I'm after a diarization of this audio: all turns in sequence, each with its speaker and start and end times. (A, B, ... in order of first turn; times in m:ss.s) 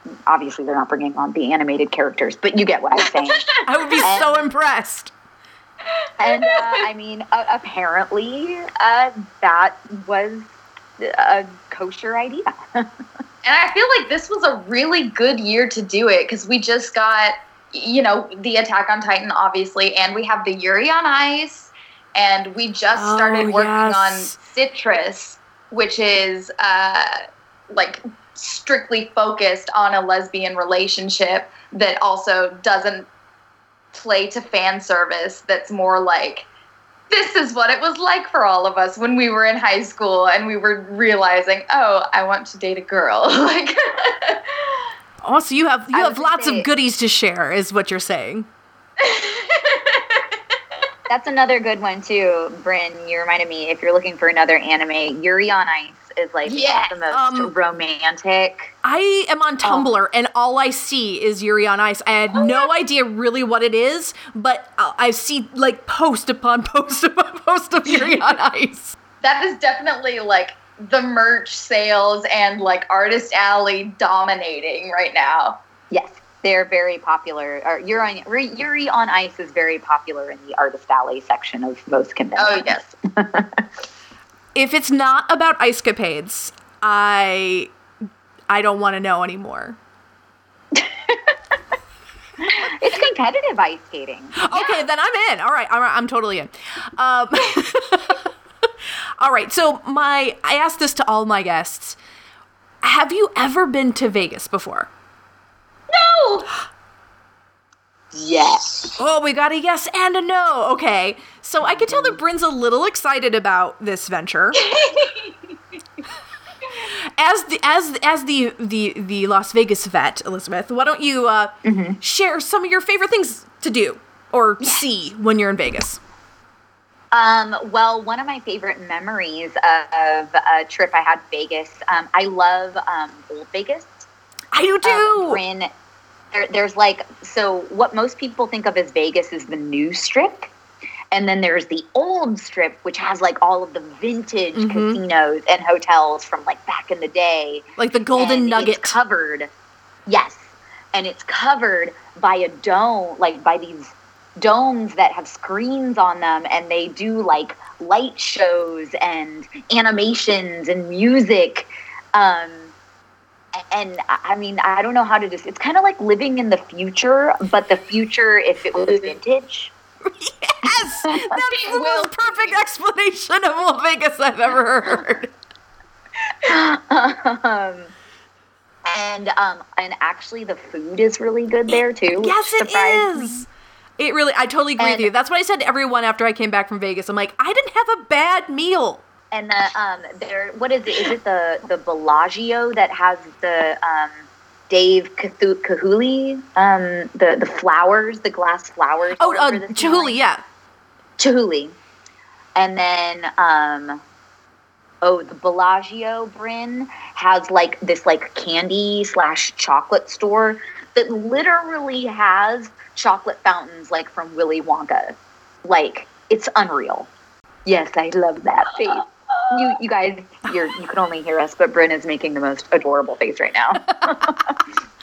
0:00.3-0:03.5 A
0:03.2-0:03.6 B
0:03.6-0:05.1 C
0:04.0-0:04.4 A
0:06.2-0:10.5 A
0:06.2-0:06.9 B
0:11.0-0:12.9 A
0:13.4-0:33.1 B
0:22.9-0:24.3 C
0:33.9-0:36.5 B
0:37.1-0:44.8 B
0:45.2-0:48.5 C
0:45.9-0:46.7 A
0:49.0-0:50.4 B
0:51.1-0:58.7 A
0:56.4-0:57.0 B
0:57.1-0:57.5 C
0:58.8-1:09.0 C
1:02.4-1:02.7 B
1:09.2-1:15.6 B
1:15.9-1:23.6 A
1:22.4-1:22.8 B
1:24.5-1:27.7 C
1:28.5-1:29.8 C
1:32.4-1:34.4 A
1:34.4-1:38.2 C
1:34.5-1:34.8 B
1:39.2-1:42.0 C
1:42.8-1:44.9 C
1:45.9-1:46.5 B
1:48.1-1:49.0 A
1:49.0-1:54.6 C
1:51.6-1:52.2 A
1:54.6-1:55.3 B
1:57.2-2:06.0 C
2:01.6-2:02.0 A
2:07.1-2:14.1 A
2:14.5-2:15.4 C
2:14.8-2:15.7 A
2:16.3-2:20.5 A
2:21.1-2:29.5 A
2:24.5-2:25.0 C
2:27.8-2:29.0 C
2:30.1-2:42.7 A
2:43.6-2:49.7 A
2:50.1-2:55.3 C
2:51.0-2:51.3 A
2:51.5-2:52.6 B
2:56.4-2:57.9 A
2:58.8-3:03.4 A
3:01.7-3:03.5 C
3:04.0-3:09.0 C
3:04.8-3:05.1 A
3:09.3-3:20.2 A
3:19.2-3:20.4 C
3:21.2-3:21.8 A
3:22.6-3:24.0 A
3:25.0-3:37.1 A
3:37.6-3:44.6 A